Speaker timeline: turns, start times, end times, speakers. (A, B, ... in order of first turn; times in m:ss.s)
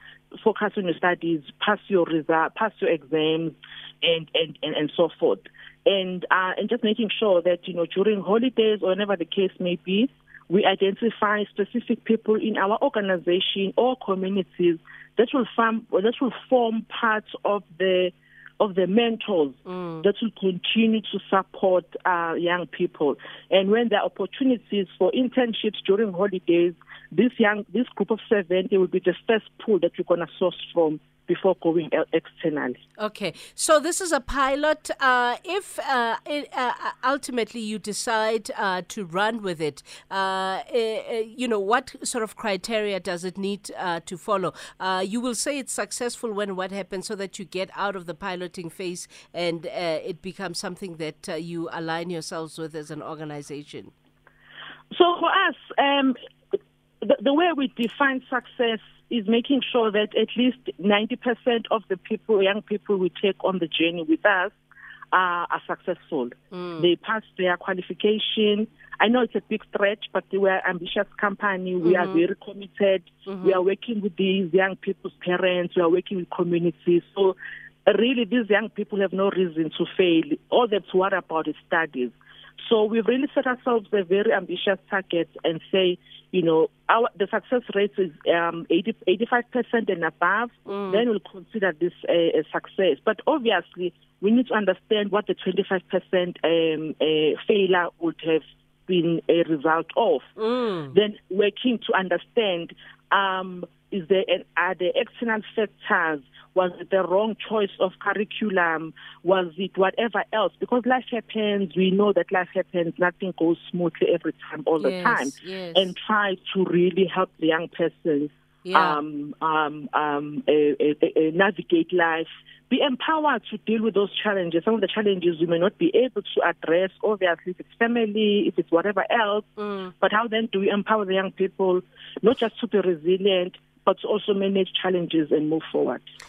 0:00.4-0:32.8 A
0:19.7-0:20.0 B
0:33.0-0:53.9 B
0:54.9-0:56.2 A
0:57.0-1:04.6 A
1:05.1-1:40.3 A
1:06.5-1:06.9 B
1:11.8-1:12.2 B
1:13.3-1:13.6 B
1:30.7-1:31.0 B
1:40.4-1:41.0 B
1:40.9-2:09.5 A
1:54.8-1:55.9 B
1:58.6-1:59.0 B
2:09.6-2:09.9 B
2:10.0-2:16.0 A